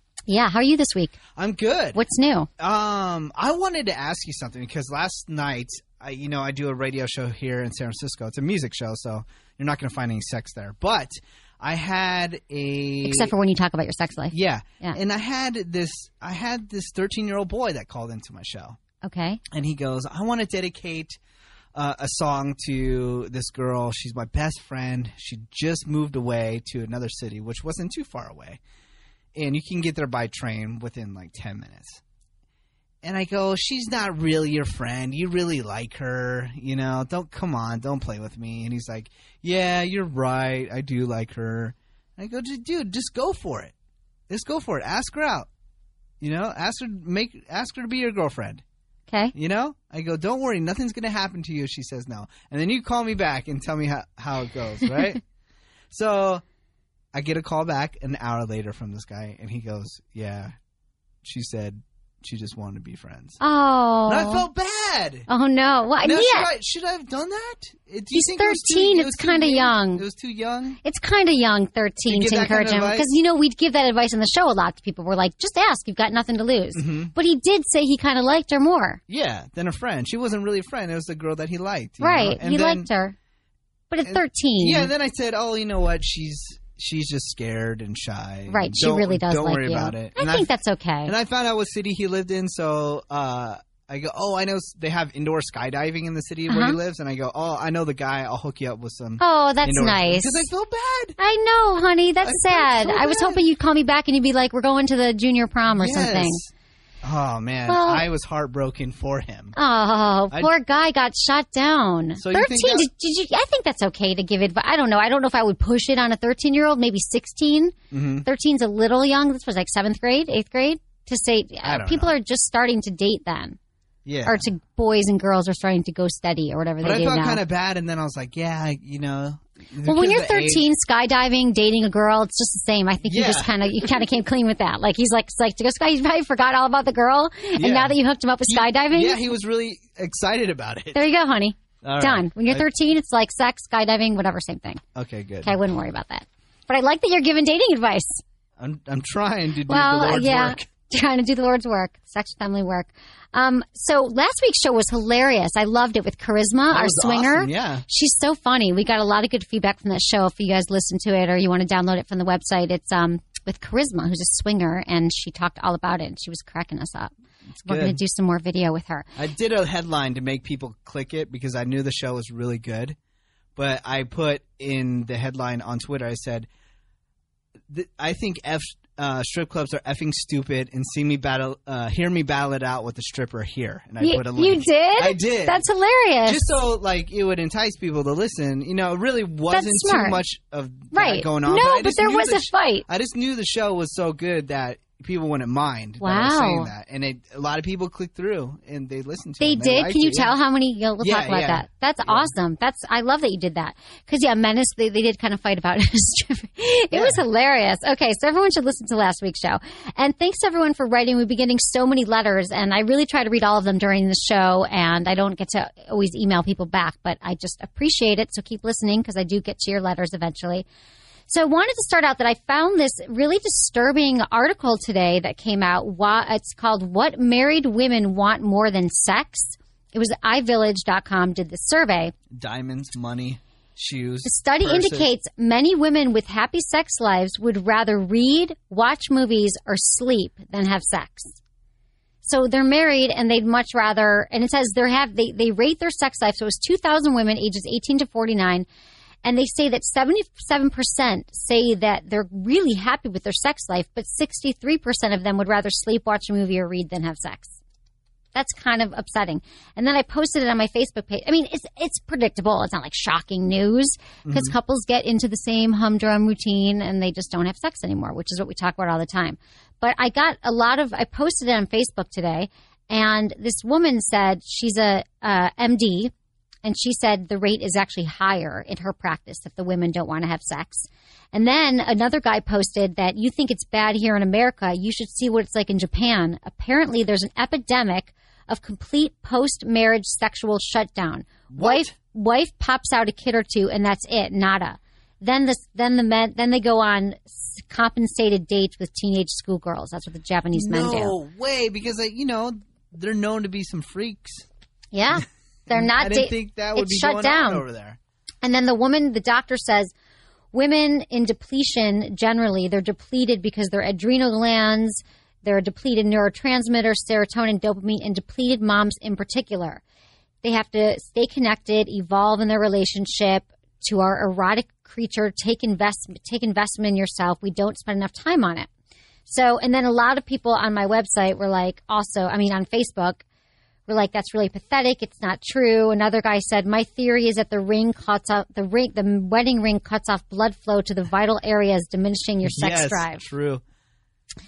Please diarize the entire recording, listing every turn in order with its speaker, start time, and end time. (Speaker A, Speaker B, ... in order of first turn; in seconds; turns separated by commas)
Speaker A: 0.3-1.2, Speaker B: 1.4-2.0, Speaker A: 1.9-2.5, Speaker B: 2.6-13.3, Speaker A: 13.0-15.0, Speaker B: 14.3-18.8, Speaker A: 19.0-19.4, Speaker B: 19.5-21.2, Speaker B: 21.7-28.6, Speaker B: 29.3-32.0, Speaker B: 33.0-43.7, Speaker B: 44.3-45.5, Speaker B: 46.2-48.6, Speaker A: 49.1-49.3, Speaker B: 49.3-55.2, Speaker B: 55.9-56.4, Speaker B: 57.1-60.5, Speaker B: 61.2-63.4, Speaker A: 63.4-64.4, Speaker B: 64.1-65.3, Speaker A: 65.3-66.5, Speaker B: 66.0-70.8, Speaker A: 68.1-70.0, Speaker A: 70.8-79.0, Speaker B: 72.1-73.1, Speaker B: 76.7-77.1, Speaker B: 79.1-82.9, Speaker A: 82.0-83.1, Speaker A: 83.9-84.9, Speaker B: 84.0-90.5, Speaker A: 88.5-91.1, Speaker B: 91.0-101.2, Speaker A: 96.5-96.8, Speaker A: 99.2-100.5, Speaker A: 101.2-106.4, Speaker B: 102.2-103.4, Speaker B: 105.7-106.5, Speaker B: 107.0-109.5, Speaker A: 107.7-108.0, Speaker A: 109.5-123.6, Speaker B: 112.2-112.9, Speaker B: 117.9-118.3, Speaker B: 121.6-122.1, Speaker B: 124.0-124.4, Speaker A: 124.2-127.4, Speaker B: 126.8-130.7, Speaker A: 129.8-139.2, Speaker B: 133.0-134.0, Speaker B: 137.6-141.1, Speaker A: 140.9-144.8, Speaker B: 141.8-142.6, Speaker B: 144.9-145.6, Speaker A: 145.4-148.2, Speaker B: 148.6-150.7, Speaker A: 149.7-167.1, Speaker B: 156.7-157.8, Speaker B: 167.6-168.0, Speaker A: 167.6-169.1, Speaker B: 169.2-172.9, Speaker B: 173.6-176.5, Speaker B: 177.7-185.6, Speaker A: 184.0-186.6, Speaker B: 186.2-200.4, Speaker A: 189.5-190.2, Speaker A: 190.9-192.8, Speaker A: 196.0-196.7, Speaker A: 199.4-220.7, Speaker B: 201.0-202.3, Speaker B: 206.9-207.2, Speaker A: 221.3-232.1, Speaker B: 232.3-235.1, Speaker A: 234.2-241.4, Speaker A: 242.2-248.7, Speaker A: 249.2-257.6, Speaker A: 258.3-276.1, Speaker B: 264.2-264.6, Speaker A: 276.6-301.1, Speaker B: 291.5-291.9, Speaker B: 300.5-304.5, Speaker A: 304.9-307.6, Speaker B: 305.7-308.0, Speaker A: 308.4-309.9, Speaker A: 310.5-319.8, Speaker A: 320.4-328.7, Speaker A: 329.3-333.2, Speaker A: 333.9-343.2, Speaker B: 342.4-343.6